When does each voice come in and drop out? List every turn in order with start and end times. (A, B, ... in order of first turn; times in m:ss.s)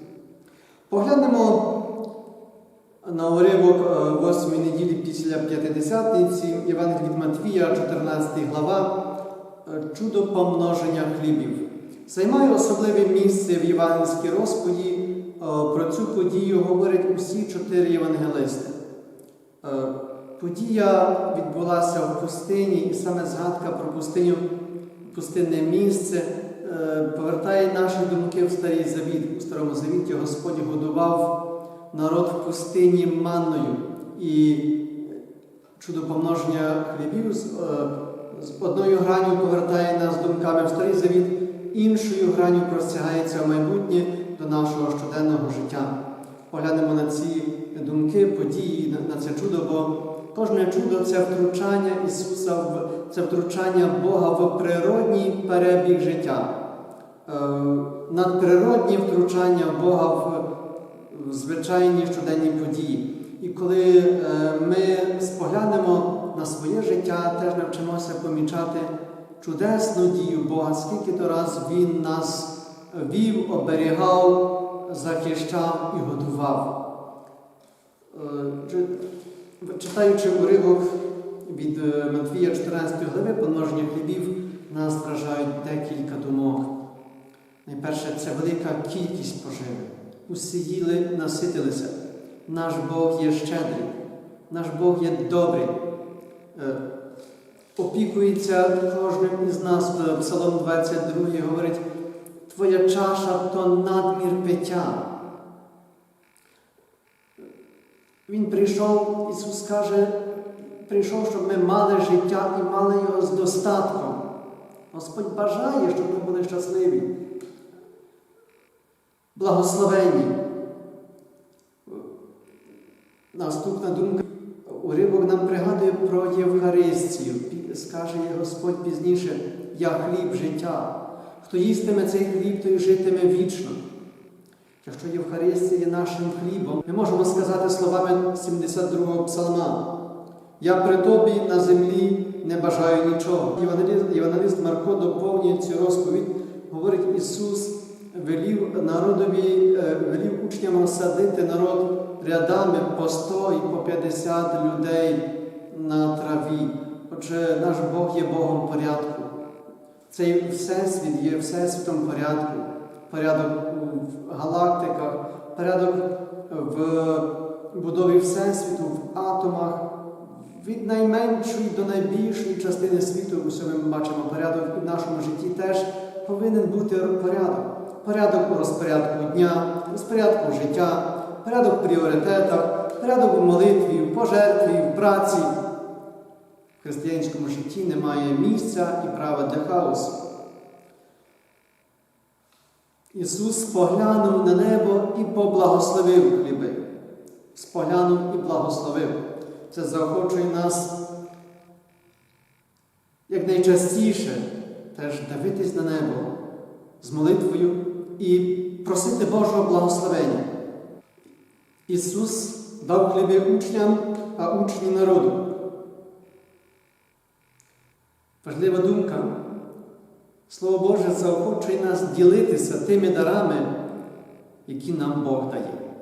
0:00.9-0:01.7 A
0:03.0-0:08.9 A
0:09.6-0:18.8 A
0:19.6-0:24.4 A
0:25.0-0:31.3 A
0:31.9-0:35.2 A
0:35.8-0:45.9 A
0:46.5-0:56.5 A
0:57.2-1:00.4 A
1:01.1-1:16.7 A
1:18.1-1:19.0 A
1:19.6-1:20.9 A
1:21.4-1:26.7 A
1:27.6-1:33.9 A
1:34.5-1:35.8 A
1:36.5-1:36.8 A
1:37.8-1:41.8 A
1:42.5-1:45.1 A
1:48.3-1:50.2 A
1:50.8-1:54.2 A
1:54.9-1:57.1 A
1:59.3-2:00.3 A
2:03.3-2:13.8 A
2:14.8-2:19.8 A
2:20.6-2:39.3 A
2:40.1-3:05.5 A
3:06.8-3:10.2 A
3:13.1-3:16.8 A
3:17.5-3:19.2 A
3:19.7-3:20.9 A
3:23.3-3:26.3 A
3:27.0-3:30.4 A
3:31.9-3:35.4 A
3:38.4-3:39.3 A
3:40.5-3:43.7 A
3:44.6-3:45.8 A